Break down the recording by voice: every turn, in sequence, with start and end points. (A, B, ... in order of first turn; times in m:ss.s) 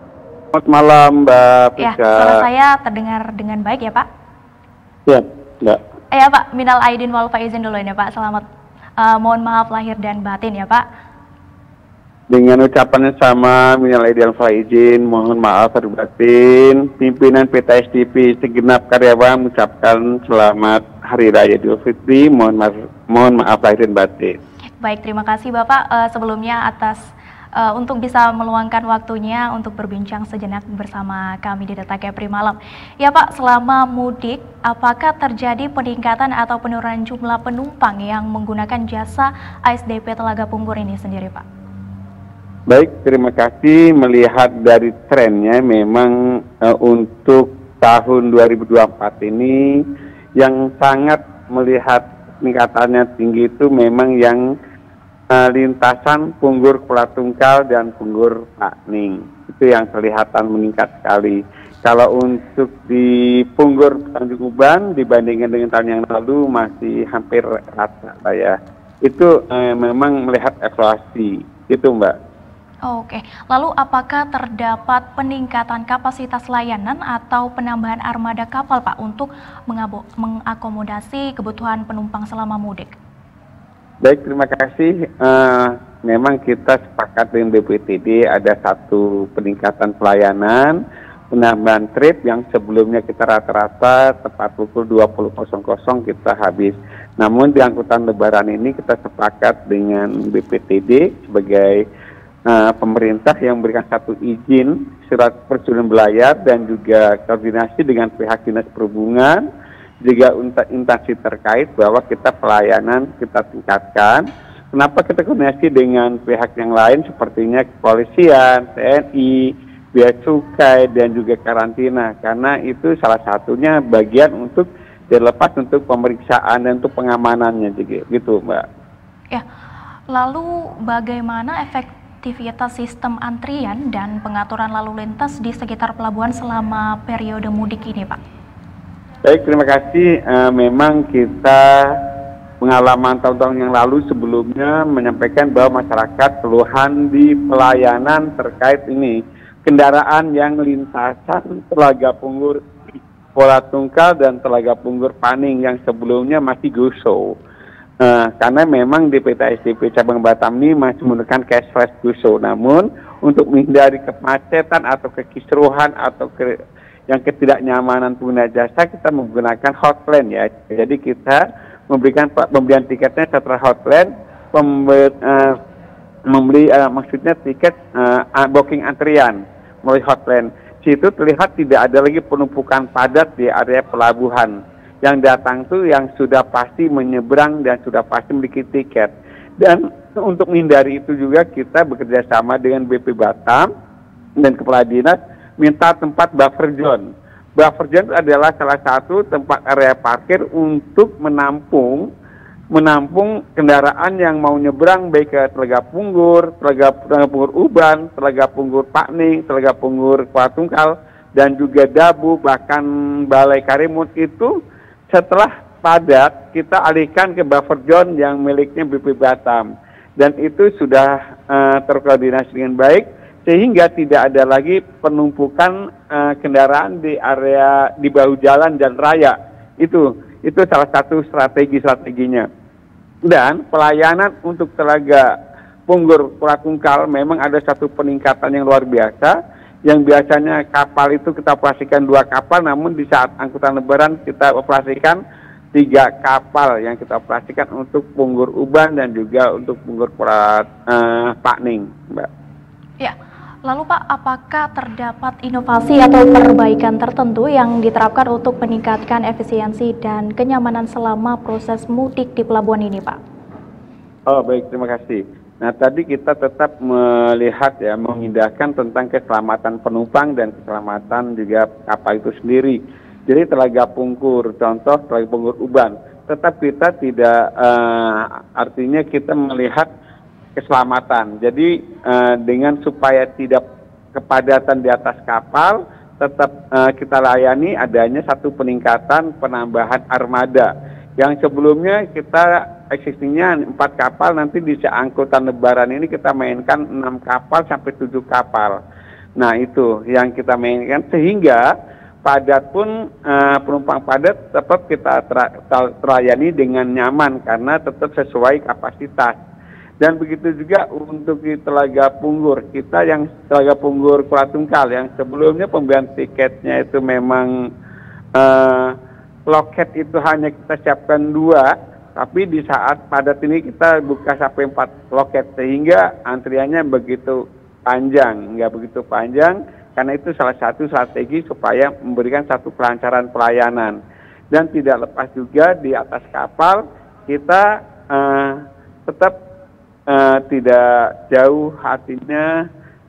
0:00.5-0:02.4 A
0:01.8-0:04.0 B
0:05.1-0:05.8 A
0:06.1-0:08.4 B
0:09.0-0:10.8 B
0:12.3-0:24.4 A
0:24.8-0:27.0 B
0:27.6-0:41.4 B
0:42.7-0:46.1 A
0:46.6-0:49.8 A
0:50.4-0:54.4 A
0:55.3-1:12.1 A
1:12.9-1:22.9 B
1:24.0-1:30.8 A
1:31.3-1:41.8 A
1:42.5-1:49.4 A
1:50.0-2:08.6 A
2:10.1-2:18.2 B
2:19.3-2:21.9 A
2:22.6-2:32.6 A
2:33.4-2:37.3 A
2:38.0-2:46.5 A
2:47.1-2:55.6 A
2:56.3-3:13.7 A
3:14.4-3:17.0 A
3:17.6-3:22.1 A
3:22.7-3:34.5 A
3:35.1-3:39.6 A
3:40.2-3:52.5 A
3:53.3-3:55.2 A
3:55.9-3:59.4 A
3:59.9-4:05.2 A
4:05.7-4:12.3 A
4:13.0-4:23.2 B
4:24.3-4:39.9 A
4:40.6-4:43.6 A
4:44.1-4:58.7 A
4:59.4-5:01.6 A
5:02.2-5:09.4 A
5:10.0-5:17.5 A
5:18.4-5:18.9 A
5:19.5-5:34.0 A
5:34.5-5:39.3 A
5:40.1-5:42.5 A